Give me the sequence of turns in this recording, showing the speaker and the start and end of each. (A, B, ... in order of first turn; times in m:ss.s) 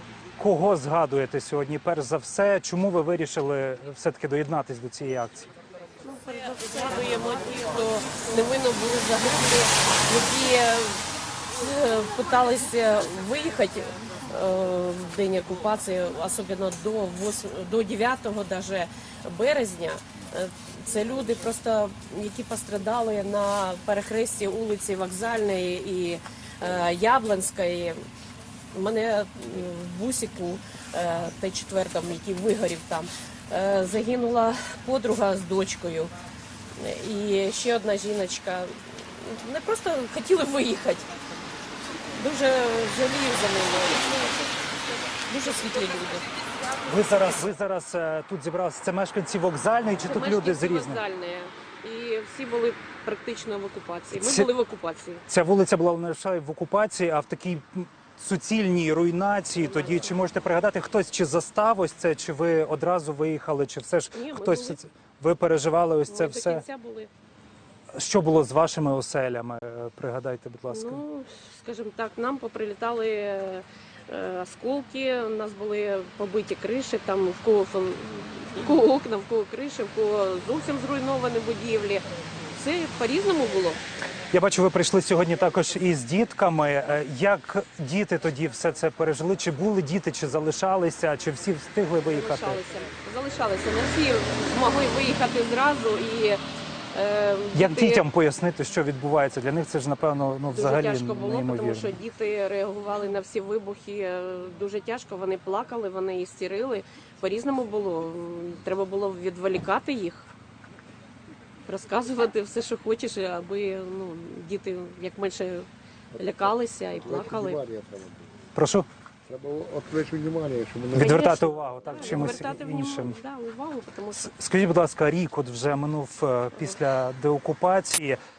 0:00.4-0:05.5 A
0:06.0-0:28.0 B
0:28.7-0:36.1 B
0:36.8-0:41.1 B
0:42.1-0:44.6 B
0:45.2-0:46.3 B
0:46.8-0:51.0 A
0:50.0-0:55.2 B
0:54.2-0:54.5 A
0:55.3-1:06.6 A
0:59.6-1:00.1 B
1:04.1-1:04.8 B
1:06.1-1:07.1 B
1:07.9-1:11.0 A
1:10.7-1:23.8 B
1:24.3-1:32.6 A
1:32.1-1:36.4 B
1:36.9-1:38.0 B
1:37.5-1:42.0 A
1:40.5-1:50.3 B
1:51.7-1:57.6 B
1:56.2-1:58.3 C
1:58.6-1:58.9 A
1:59.3-2:01.2 C
2:00.9-2:03.2 A
2:01.0-2:04.3 B
2:04.1-2:08.2 A